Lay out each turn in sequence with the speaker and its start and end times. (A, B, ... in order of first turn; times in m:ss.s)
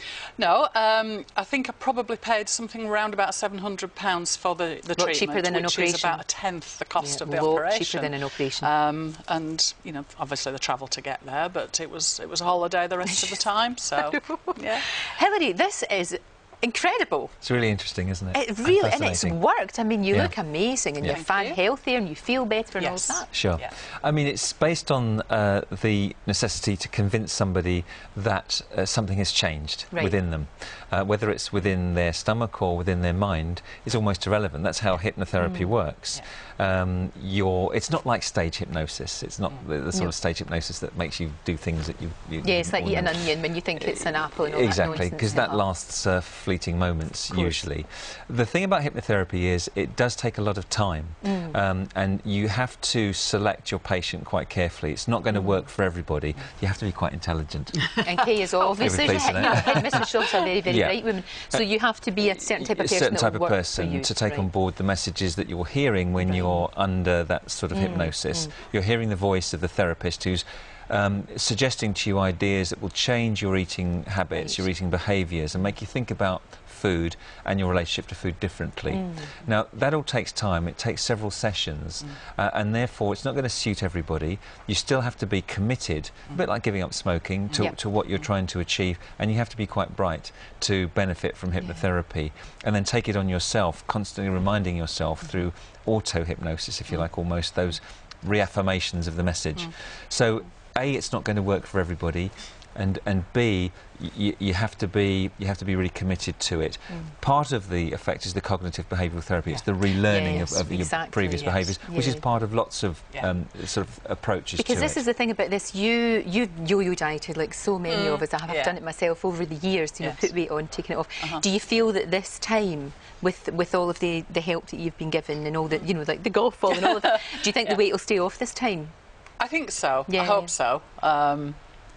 0:00.4-0:14.9 A
0:05.0-0:06.2 B
0:07.0-0:08.7 B
0:14.0-0:17.4 B
0:17.4-0:19.4 C
0:18.3-0:23.3 B
0:21.1-0:21.6 A
0:22.8-0:23.7 A
0:23.3-0:58.0 C
0:35.4-0:35.7 B
0:42.4-0:45.6 B
0:51.2-0:51.6 B
0:58.0-1:04.5 B
0:58.7-1:00.1 C
1:00.6-1:01.6 C
1:02.6-1:55.0 C
1:06.2-1:06.7 B
1:07.7-1:08.5 B
1:14.4-1:14.6 B
1:18.9-1:19.4 B
1:31.6-1:31.9 B
1:50.0-1:52.2 B
1:54.6-2:08.9 B
1:57.9-1:58.8 A
2:00.0-2:00.3 A
2:06.7-2:07.7 A
2:09.4-2:11.6 A
2:10.1-2:10.5 B